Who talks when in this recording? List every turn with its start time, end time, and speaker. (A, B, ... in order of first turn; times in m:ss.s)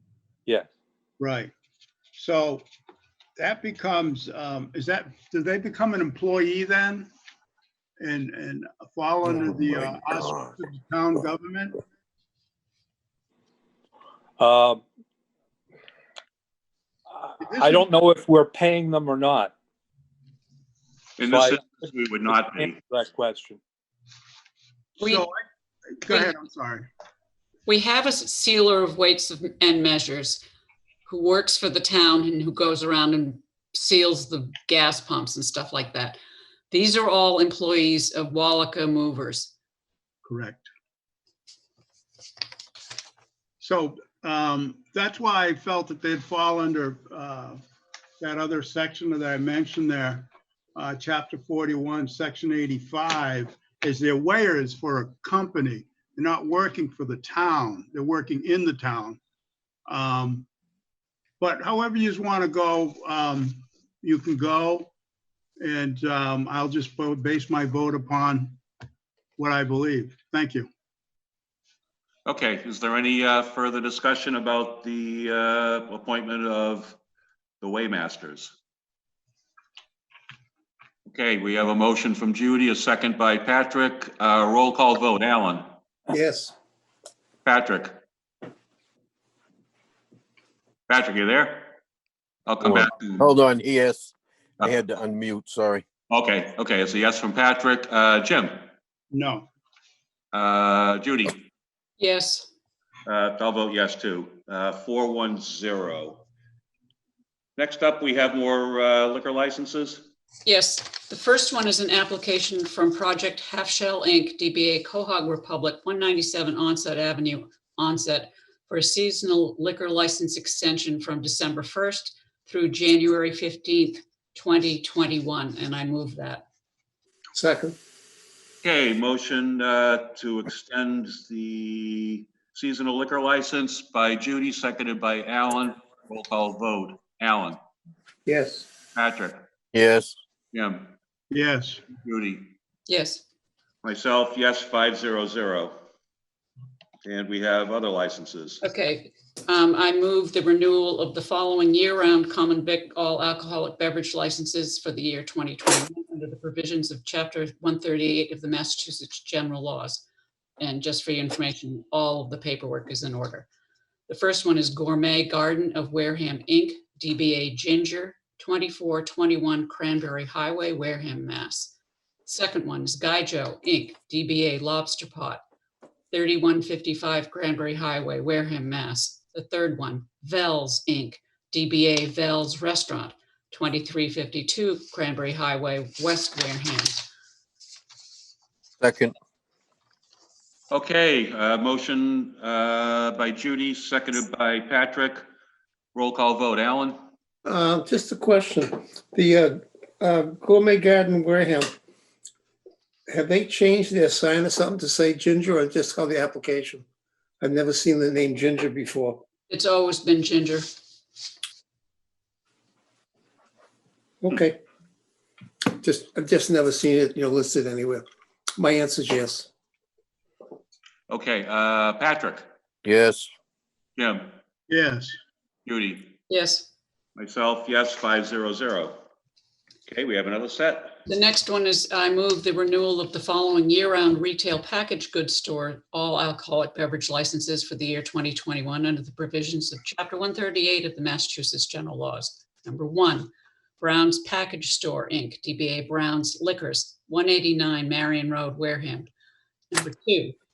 0:01.2-0:01.5 A
0:02.1-0:02.6 A
0:03.4-0:07.1 A
0:08.0-0:11.8 A
0:09.4-0:10.5 B
0:14.4-0:14.8 C
0:17.2-0:19.5 C
0:17.4-0:17.9 A
0:21.2-0:22.8 D
0:21.2-0:21.8 C
0:22.4-0:23.6 C
0:25.0-0:25.4 A
0:25.0-0:25.2 E
0:26.0-0:26.9 A
0:26.1-0:26.4 E
0:27.6-0:30.4 E
0:31.1-0:36.2 E
0:36.7-0:39.5 E
0:40.2-0:40.7 A
0:43.6-0:47.6 A
0:48.2-0:59.2 A
0:59.9-1:00.5 A
1:01.4-1:04.9 A
1:05.6-1:08.6 A
1:09.4-1:10.7 A
1:12.2-1:17.0 D
1:17.6-1:18.5 D
1:21.1-1:25.6 D
1:26.1-1:26.5 F
1:27.4-1:28.0 D
1:30.9-1:31.7 D
1:32.5-1:33.3 D
1:32.6-1:35.8 B
1:36.1-1:38.7 D
1:39.1-1:39.5 A
1:40.3-1:41.4 D
1:42.0-1:42.5 E
1:43.0-1:46.2 D
1:47.6-1:50.0 D
1:50.4-2:06.4 E
2:07.3-2:07.8 F
2:08.6-2:17.6 D
2:18.2-2:18.7 F
2:18.9-2:19.4 D
2:19.7-2:20.1 B
2:20.5-2:20.9 D
2:21.3-2:21.8 A
2:21.9-2:22.5 D
2:22.9-2:23.2 E
2:23.8-2:25.8 D
2:27.0-2:28.6 D
2:28.6-2:40.0 E
2:40.6-2:43.5 E
2:44.1-2:51.7 E
2:52.2-2:55.4 E
2:56.1-3:07.1 E
3:08.8-3:09.1 B
3:10.7-3:15.2 D
3:15.9-3:17.0 D
3:17.4-3:21.7 F
3:23.1-3:26.8 F
3:27.4-3:29.2 F
3:29.5-3:30.7 E
3:34.2-3:34.6 F
3:35.7-3:38.0 F
3:38.6-3:39.5 F
3:41.1-3:42.5 D
3:42.8-3:43.3 B
3:44.0-3:44.3 D
3:44.7-3:45.2 A
3:45.6-3:46.1 D
3:46.3-3:46.7 E
3:47.2-3:49.0 D
3:49.9-3:51.0 D
3:51.0-4:09.1 E
4:09.7-4:10.4 E